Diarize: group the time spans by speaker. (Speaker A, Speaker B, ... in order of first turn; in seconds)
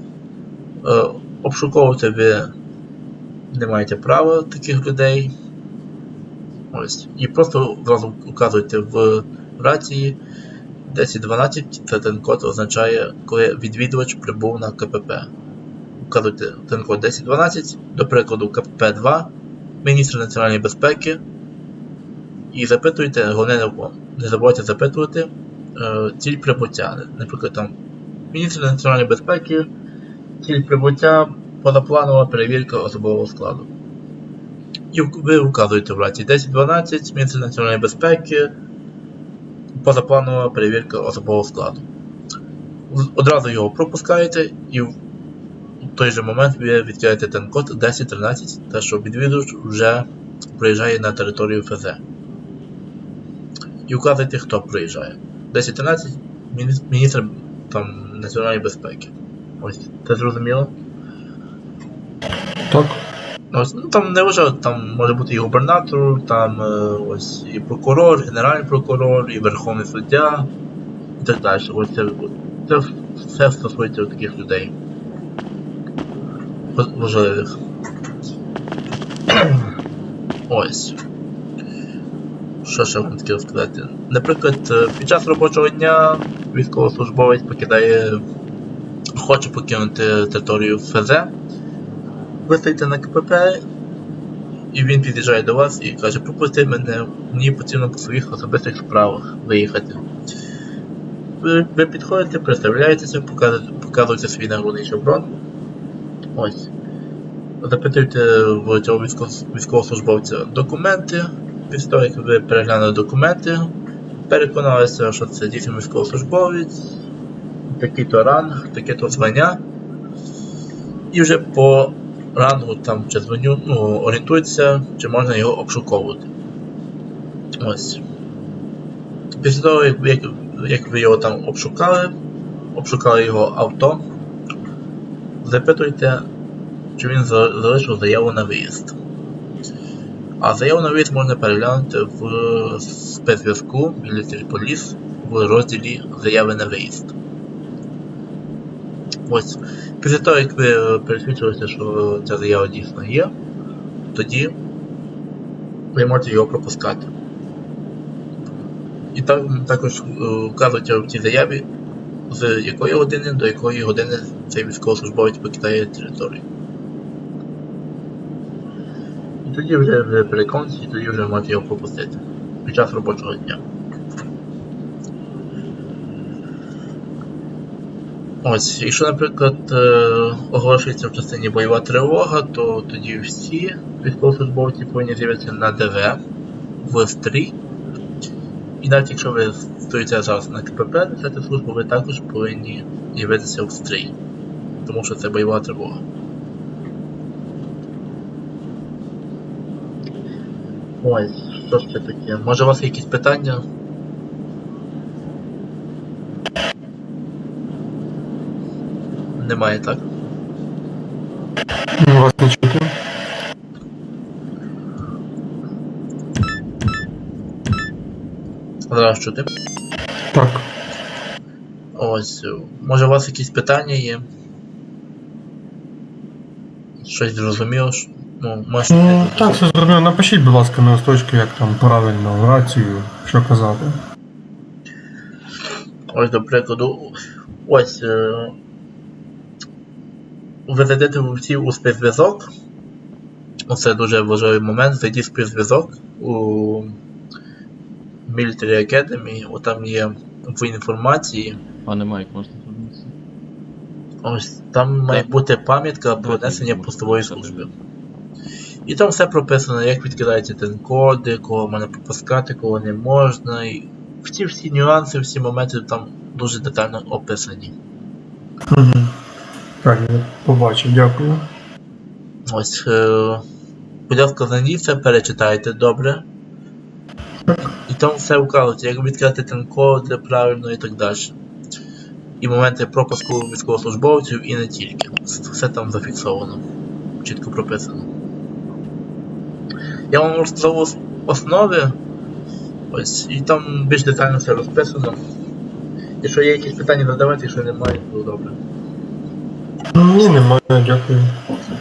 Speaker A: 0.8-2.5, 3.5-5.3, 6.7-10.2, 10.9-15.3, 16.0-19.3, 19.8-21.2, 22.5-27.7, 28.3-29.7, 30.4-33.7, 34.9-38.5, 39.8-41.9, 42.9-44.9, 45.8-50.0, 50.6-52.0, 53.9-60.7, 63.5-70.5, 71.2-74.7, 76.7-77.5, 80.5-81.0, 82.6-88.2, 89.2-91.3, 92.5-93.6, 94.7-100.0, 101.4-105.3, 106.3-106.7, 107.6-113.7, 114.3-116.9, 117.7-119.6, 121.1-126.2, 127.6-128.0, 129.4-132.1, 132.7-134.0, 135.4-136.2, 137.0-138.9, 140.4-147.1, 149.3-153.3, 154.1-154.5, 155.9-157.1, 159.1-161.7, 162.3-166.4, 169.4-173.6, 178.4-186.2, 186.8-187.6, 188.8-194.2, 194.8-196.0, 201.0-203.6, 209.4-210.1, 218.9-219.5, 221.9-224.2, 227.0-229.6, 236.1-237.1, 237.7-238.5, 240.7-242.5, 243.7-246.9, 248.3-251.6, 254.2-257.7, 258.9-267.7, 272.4-273.4, 274.1-276.2, 277.7-281.3, 282.4-286.6, 287.2-288.1, 290.1-291.9, 292.9-295.2, 296.2-298.6
Speaker B: 62.7-63.0, 212.0-212.9, 220.3-220.7, 228.9-234.0, 268.7-269.1, 269.8-271.4, 299.9-301.3
Speaker C: 251.8-253.1, 256.1-257.7